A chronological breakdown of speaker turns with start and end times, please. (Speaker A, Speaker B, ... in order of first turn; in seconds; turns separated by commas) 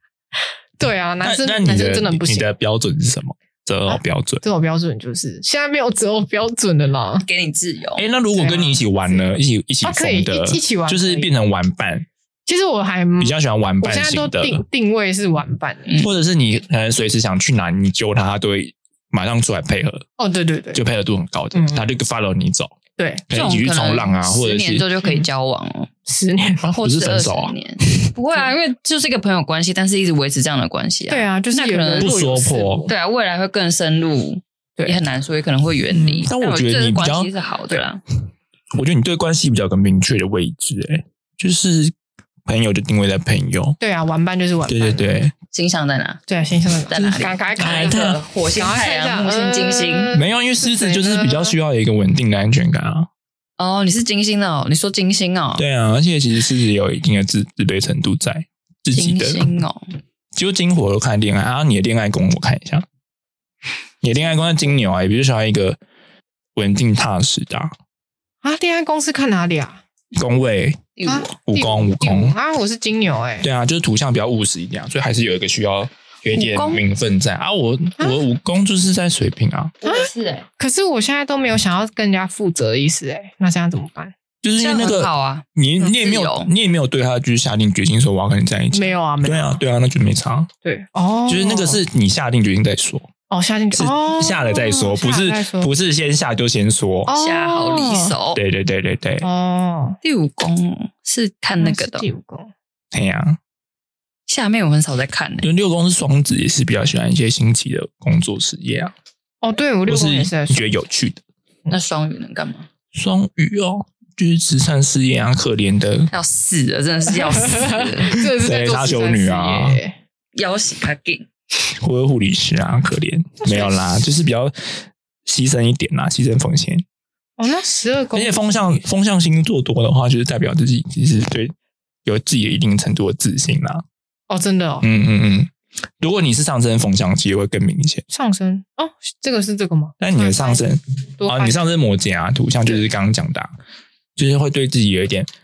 Speaker A: 0.8-2.5, Speaker B: 1.2-4.4, Speaker A: 3.9-7.3, Speaker C: 7.2-8.1, Speaker B: 8.0-12.1, Speaker A: 8.3-11.3, Speaker A: 12.5-16.0, Speaker B: 13.2-14.6, Speaker B: 16.0-20.1, Speaker A: 20.2-20.8, Speaker B: 20.7-22.7, Speaker A: 21.5-21.8, Speaker A: 23.0-23.2, Speaker B: 23.3-24.9, Speaker C: 23.3-25.9, Speaker A: 26.1-26.7, Speaker B: 26.6-27.6, Speaker C: 26.8-32.1, Speaker A: 31.1-32.9, Speaker B: 32.0-32.9, Speaker C: 32.9-38.0, Speaker A: 35.9-36.3, Speaker B: 36.3-37.3, Speaker B: 38.7-41.9, Speaker B: 42.5-43.8, Speaker A: 43.8-45.1, Speaker B: 44.7-45.3, Speaker C: 45.5-46.2, Speaker A: 46.3-51.6, Speaker C: 46.9-50.1, Speaker B: 47.6-48.2, Speaker B: 50.1-53.1, Speaker C: 53.6-55.6, Speaker B: 55.6-59.5, Speaker C: 58.9-59.9, Speaker B: 60.3-62.9, Speaker B: 64.0-65.8, Speaker B: 66.5-67.7, Speaker A: 68.4-69.8, Speaker B: 70.2-72.4, Speaker C: 71.0-71.3, Speaker A: 71.0-73.5, Speaker B: 73.4-79.8, Speaker C: 76.3-76.8, Speaker C: 79.8-80.5, Speaker A: 79.8-84.1, Speaker B: 84.4-90.5, Speaker C: 84.6-86.5, Speaker A: 88.7-89.6, Speaker A: 90.6-91.8, Speaker B: 91.3-93.1, Speaker A: 93.3-95.7, Speaker B: 93.7-97.1, Speaker A: 97.1-98.2, Speaker C: 97.2-98.4, Speaker B: 98.3-99.3, Speaker A: 99.2-100.0, Speaker C: 100.0-102.1, Speaker A: 101.6-102.5, Speaker B: 102.9-103.4, Speaker C: 104.3-105.5, Speaker B: 105.4-108.9, Speaker A: 109.4-110.7, Speaker B: 109.9-111.2, Speaker C: 111.7-112.7, Speaker B: 112.9-116.1, Speaker C: 116.1-118.3, Speaker A: 117.2-120.0, Speaker B: 118.4-119.8, Speaker C: 120.3-121.3, Speaker B: 121.7-126.8, Speaker A: 123.4-124.0, Speaker A: 127.4-128.8, Speaker B: 128.1-131.5, Speaker B: 132.1-133.8, Speaker A: 134.3-134.9, Speaker B: 134.8-138.0, Speaker A: 138.1-140.6, Speaker B: 140.0-143.5, Speaker A: 141.2-141.7, Speaker B: 144.2-145.3